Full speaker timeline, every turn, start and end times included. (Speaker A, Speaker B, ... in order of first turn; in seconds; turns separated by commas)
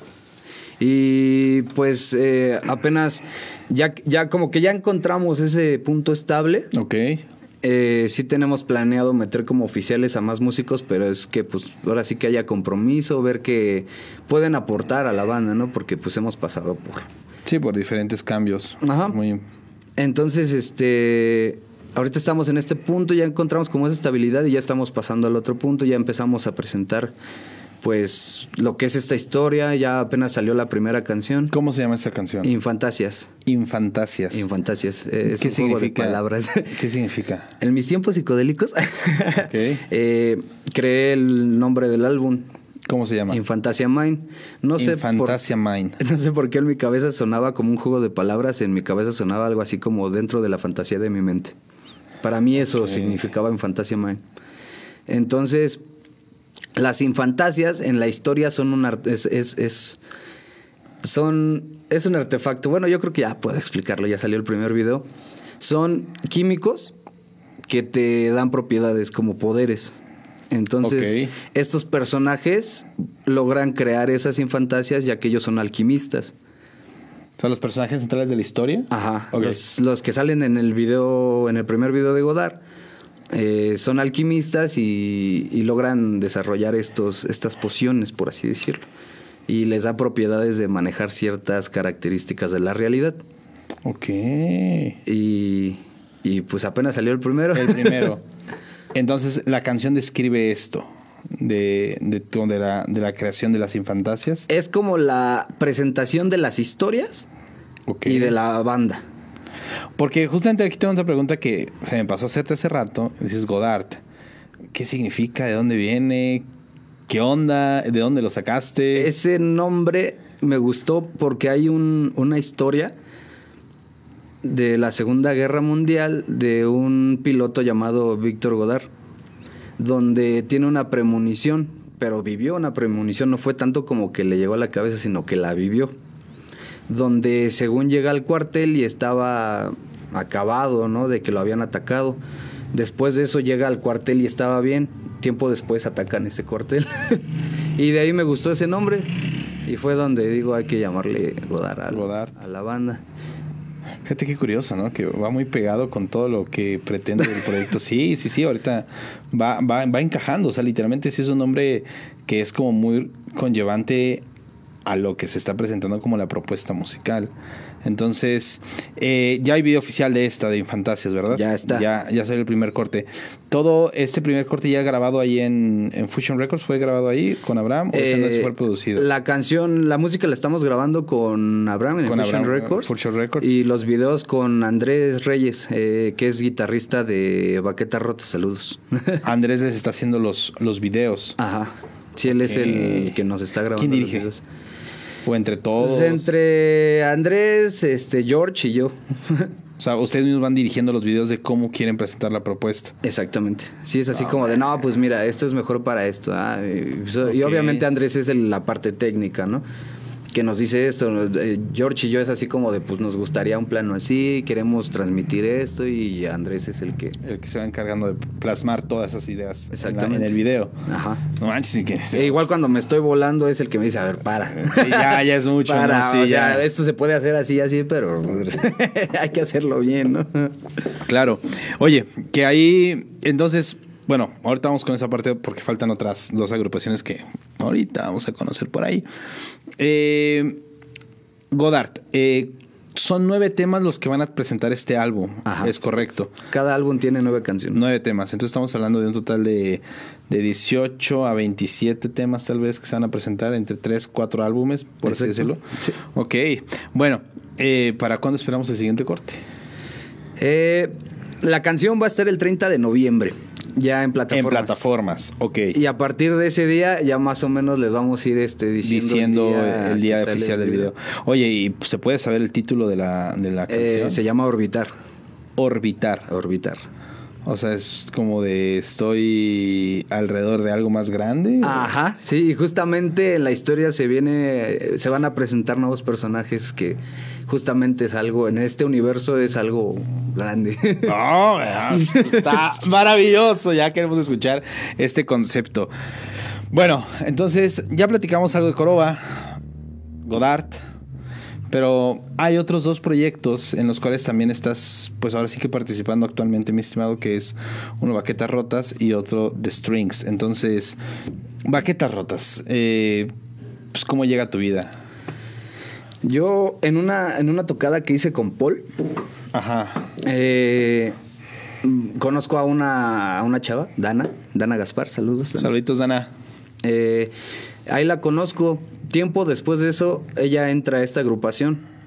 Speaker A: 0.8-6.7, Speaker B: 6.7-7.2, Speaker A: 7.6-17.1, Speaker B: 17.4-19.4, Speaker A: 18.8-19.2, Speaker A: 20.0-27.1, Speaker A: 27.8-31.6, Speaker B: 31.5-32.5, Speaker A: 32.4-33.3, Speaker B: 33.5-34.4, Speaker A: 34.3-36.8, Speaker B: 35.3-36.2, Speaker B: 36.7-37.5, Speaker A: 37.6-42.5, Speaker B: 39.5-39.8, Speaker B: 42.9-43.4, Speaker A: 43.3-45.4, Speaker B: 44.8-46.0, Speaker A: 46.0-51.6, Speaker A: 52.2-54.2, Speaker B: 52.7-53.2, Speaker A: 55.1-55.8, Speaker A: 56.8-60.0, Speaker A: 61.0-65.1, Speaker A: 65.6-66.9, Speaker A: 67.7-70.0, Speaker A: 70.5-76.3, Speaker B: 70.8-71.3, Speaker B: 77.4-79.6, Speaker A: 78.9-82.6, Speaker A: 83.3-88.8, Speaker A: 89.5-93.2, Speaker B: 93.8-95.0, Speaker A: 95.0-98.1, Speaker B: 97.5-98.2, Speaker B: 98.9-104.5, Speaker A: 104.5-107.3, Speaker B: 107.9-108.3, Speaker A: 108.0-109.0, Speaker B: 110.0-114.0, Speaker B: 114.7-116.5, Speaker B: 117.1-119.1, Speaker A: 118.9-123.0, Speaker A: 124.4-128.9, Speaker A: 129.8-135.9, Speaker A: 136.9-142.2, Speaker A: 142.7-147.2, Speaker A: 147.8-149.1, Speaker A: 149.7-153.0, Speaker B: 151.9-152.3, Speaker B: 154.0-164.2, Speaker B: 164.8-167.3, Speaker B: 167.8-179.1, Speaker A: 171.3-171.9, Speaker A: 177.9-189.2, Speaker B: 182.1-183.5, Speaker B: 189.2-191.4, Speaker A: 191.4-194.4, Speaker B: 192.3-193.2, Speaker B: 193.8-194.3, Speaker B: 195.2-196.3, Speaker A: 195.8-199.5, Speaker B: 199.8-202.9, Speaker A: 203.0-209.6, Speaker B: 204.2-204.5, Speaker B: 207.2-207.9, Speaker A: 210.3-217.2, Speaker B: 217.2-222.6, Speaker A: 219.7-221.2, Speaker A: 222.1-230.7, Speaker B: 224.6-226.7, Speaker B: 231.1-239.1, Speaker B: 239.8-240.6, Speaker B: 241.5-246.3, Speaker A: 245.4-245.7, Speaker A: 246.5-247.8, Speaker B: 247.7-259.4, Speaker A: 255.1-256.0, Speaker A: 260.4-264.8, Speaker B: 264.3-265.8, Speaker A: 265.7-270.9, Speaker B: 268.8-274.2, Speaker A: 273.7-274.9, Speaker B: 275.6-276.3, Speaker A: 276.3-276.8, Speaker B: 277.4-281.9, Speaker A: 281.6-291.2, Speaker B: 291.1-295.9, Speaker A: 291.9-292.6, Speaker B: 296.7-299.6, Speaker B: 300.2-300.8, Speaker B: 301.7-311.0, Speaker B: 311.7-313.3, Speaker B: 313.9-315.0, Speaker A: 316.2-318.9, Speaker B: 319.5-320.1, Speaker A: 320.2-321.2, Speaker A: 321.8-325.7, Speaker B: 325.6-326.3, Speaker A: 326.8-327.3, Speaker A: 327.9-331.9